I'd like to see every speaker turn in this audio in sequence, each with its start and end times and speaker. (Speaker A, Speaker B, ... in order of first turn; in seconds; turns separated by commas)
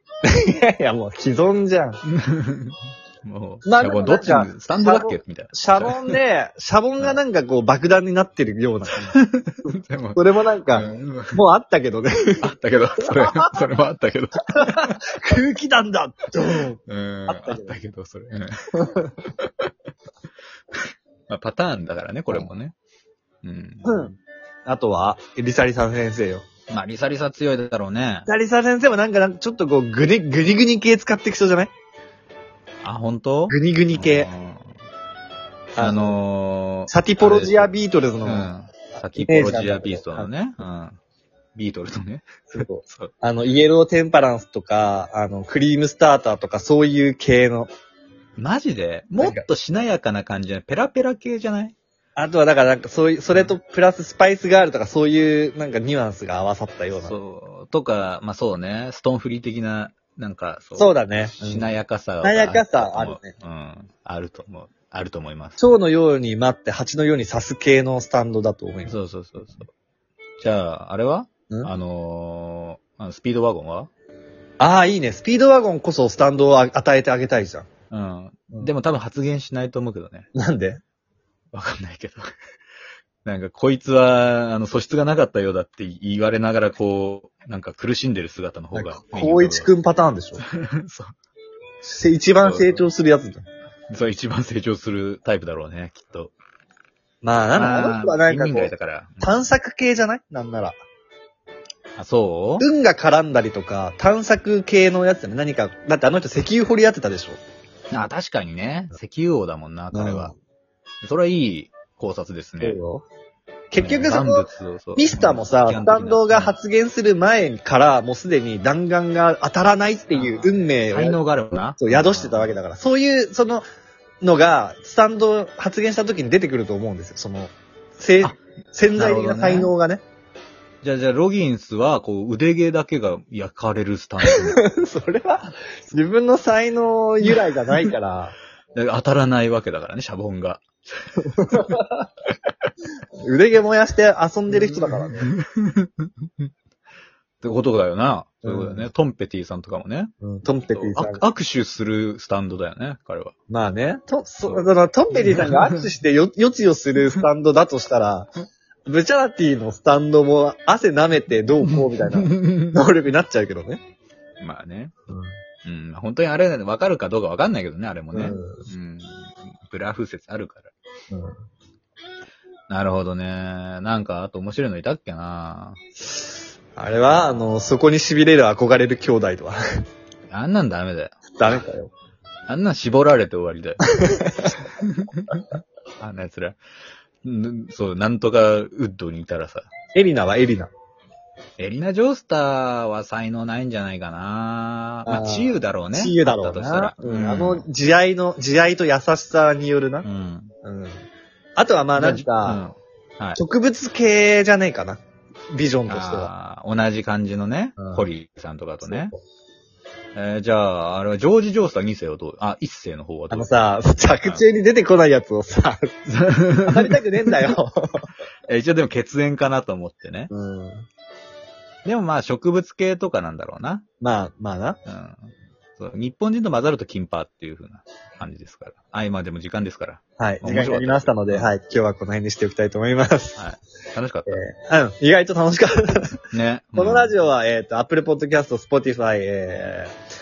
Speaker A: 0.2-2.0, Speaker B: 2.0-6.2, Speaker A: 3.6-9.2, Speaker B: 9.1-10.2, Speaker A: 10.1-12.4, Speaker B: 10.7-11.4, Speaker B: 12.4-14.9, Speaker A: 13.1-13.5, Speaker A: 14.5-17.8, Speaker B: 16.9-19.7, Speaker A: 18.7-19.3, Speaker B: 20.7-22.7, Speaker B: 23.4-24.1, Speaker A: 23.8-24.1, Speaker A: 24.7-26.4, Speaker B: 26.7-28.3, Speaker A: 28.2-31.7, Speaker B: 32.8-34.7, Speaker A: 33.5-34.3, Speaker A: 35.7-36.2, Speaker B: 35.8-37.7, Speaker A: 36.9-38.5, Speaker B: 38.2-41.0, Speaker A: 39.1-40.3, Speaker B: 41.5-43.1, Speaker A: 42.5-47.7, Speaker B: 48.4-51.7, Speaker A: 52.1-57.1, Speaker B: 57.0-65.6, Speaker A: 60.8-61.7, Speaker A: 62.2-63.3, Speaker A: 65.6-69.0, Speaker B: 68.9-69.7, Speaker B: 70.4-73.9, Speaker A: 74.6-77.7, Speaker B: 77.9-80.3, Speaker A: 80.3-80.8, Speaker B: 81.5-82.3, Speaker B: 83.2-89.7, Speaker A: 88.7-90.4, Speaker B: 90.4-91.1, Speaker A: 91.8-93.4, Speaker B: 92.4-92.9, Speaker B: 93.9-96.3, Speaker A: 97.2-100.8, Speaker B: 97.5-99.4, Speaker B: 102.0-102.6, Speaker A: 102.6-107.4, Speaker B: 107.9-110.3, Speaker A: 109.9-110.3, Speaker B: 111.0-112.8, Speaker A: 112.6-113.0, Speaker A: 113.7-121.2, Speaker B: 113.8-116.5, Speaker B: 120.1-122.6, Speaker A: 121.8-123.6, Speaker A: 124.2-130.0, Speaker B: 129.0-129.7, Speaker B: 130.8-134.6, Speaker A: 134.2-138.3, Speaker B: 138.7-141.7, Speaker A: 141.2-142.1, Speaker A: 143.2-145.3, Speaker B: 144.5-146.5, Speaker B: 147.4-150.1, Speaker A: 148.4-148.8, Speaker A: 150.2-151.2, Speaker B: 150.7-153.3, Speaker A: 153.5-158.3, Speaker B: 154.4-155.8, Speaker A: 158.9-163.8, Speaker B: 164.4-164.9, Speaker A: 165.1-165.3, Speaker B: 165.6-170.7, Speaker A: 168.1-168.7, Speaker A: 171.1-171.4, Speaker B: 172.7-175.8, Speaker A: 176.8-179.6, Speaker B: 180.3-181.1, Speaker A: 181.4-181.9, Speaker B: 182.5-183.9, Speaker A: 183.9-184.6, Speaker B: 184.6-185.4, Speaker B: 186.0-186.6, Speaker B: 187.2-189.7, Speaker A: 189.9-190.7, Speaker B: 191.6-197.7, Speaker A: 195.1-200.1, Speaker B: 200.0-200.5, Speaker A: 200.6-201.0, Speaker A: 201.6-202.6, Speaker B: 202.0-203.4, Speaker A: 203.3-206.3, Speaker B: 205.9-209.1, Speaker A: 207.8-208.1, Speaker A: 208.8-209.2, Speaker B: 210.1-213.5, Speaker A: 213.3-216.1, Speaker B: 216.1-217.5, Speaker A: 216.6-218.1, Speaker B: 218.5-220.3, Speaker A: 220.3-220.9, Speaker B: 221.8-223.8, Speaker A: 224.0-224.8, Speaker B: 224.8-231.5, Speaker A: 230.2-233.4, Speaker B: 233.4-234.4, Speaker A: 234.3-236.2, Speaker B: 236.3-237.1, Speaker A: 236.7-239.9